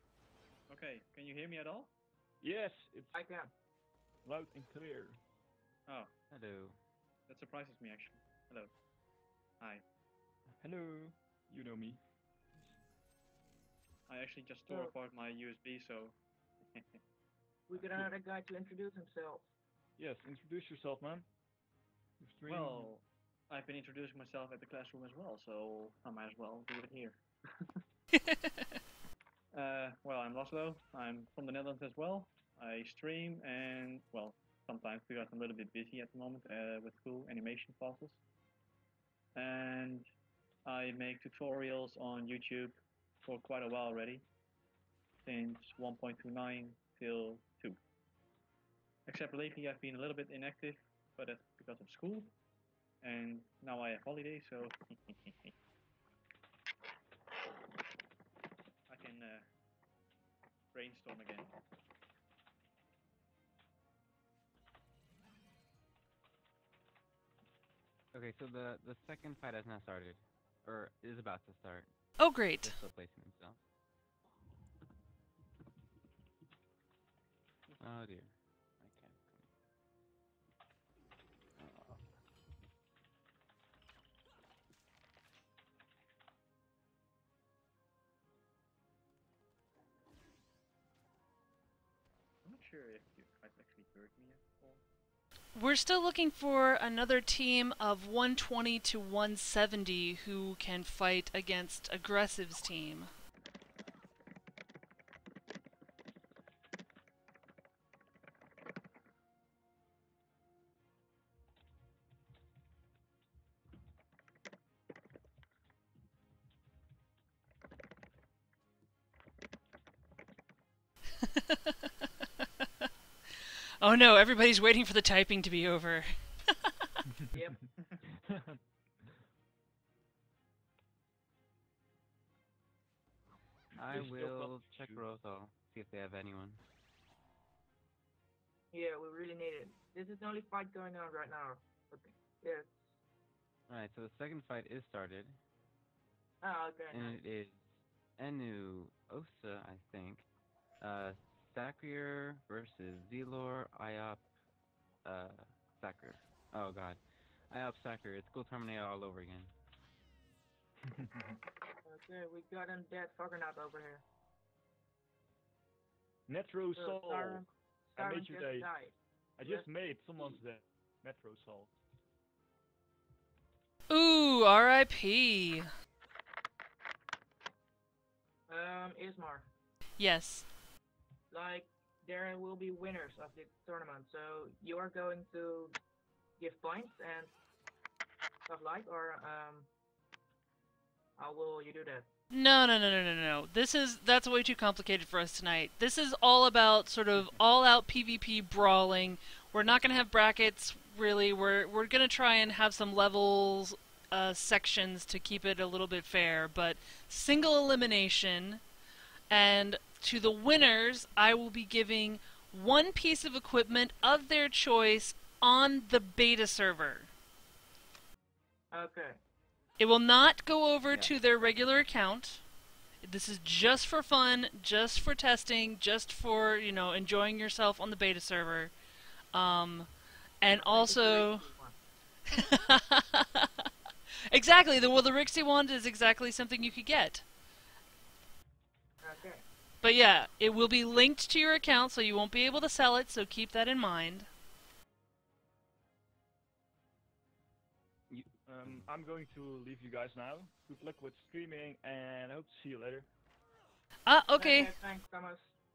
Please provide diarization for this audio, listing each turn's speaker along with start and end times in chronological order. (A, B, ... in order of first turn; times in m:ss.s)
0:00.7-0:01.9 A
0:02.4-0:03.1 B
0:03.1-0:03.5 C
0:04.2-0:05.2 B
0:06.3-0:06.8 D
0:07.3-0:08.7 A
0:10.6-0:12.0 B
0:14.1-0:16.2 A
0:16.7-0:17.0 A
0:17.7-0:19.4 C
0:20.0-0:21.3 B
0:22.2-0:22.9 B
0:22.5-0:27.7 A
0:29.5-0:38.2 A
0:39.4-0:40.1 A
0:40.6-0:44.3 A
0:45.2-0:47.8 A
0:49.1-0:52.3 A
0:53.0-0:55.5 A
0:58.9-0:59.5 A
1:00.7-1:01.5 A
1:08.1-1:13.6 D
1:12.2-1:12.8 E
1:17.8-1:19.5 D
1:21.6-1:22.0 D
1:32.4-1:34.8 A
1:35.6-1:43.1 E
2:01.3-2:01.7 E
2:03.8-2:06.7 E
2:07.3-2:07.7 C
2:13.8-2:16.6 D
2:13.9-2:15.0 B
2:18.7-2:22.9 C
2:23.7-2:25.4 D
2:26.4-2:27.2 C
2:26.9-2:30.3 D
2:30.8-2:34.2 D
2:35.0-2:39.5 D
2:41.0-2:41.2 B
2:41.8-2:44.0 C
2:46.3-2:48.7 B
2:46.8-2:49.7 C
2:49.4-2:51.8 B
2:53.9-2:55.7 E
2:58.5-2:59.5 C
3:00.0-3:00.5 E
3:01.3-3:05.8 C
3:06.4-3:07.3 C
3:08.5-3:09.7 C
3:11.2-3:12.1 C
3:12.3-3:28.6 E
3:29.3-3:37.1 E
3:38.7-3:39.2 C
3:39.8-3:42.4 E
3:40.9-3:41.2 D
3:43.0-3:48.7 E
3:49.3-3:51.5 E
3:50.5-3:51.8 C
3:52.3-3:53.7 E
3:54.3-3:57.2 E
3:59.0-3:59.4 C
3:59.8-4:04.3 E
4:08.1-4:08.9 D
4:08.5-4:13.1 B
4:14.1-4:14.7 E
4:14.3-4:15.5 C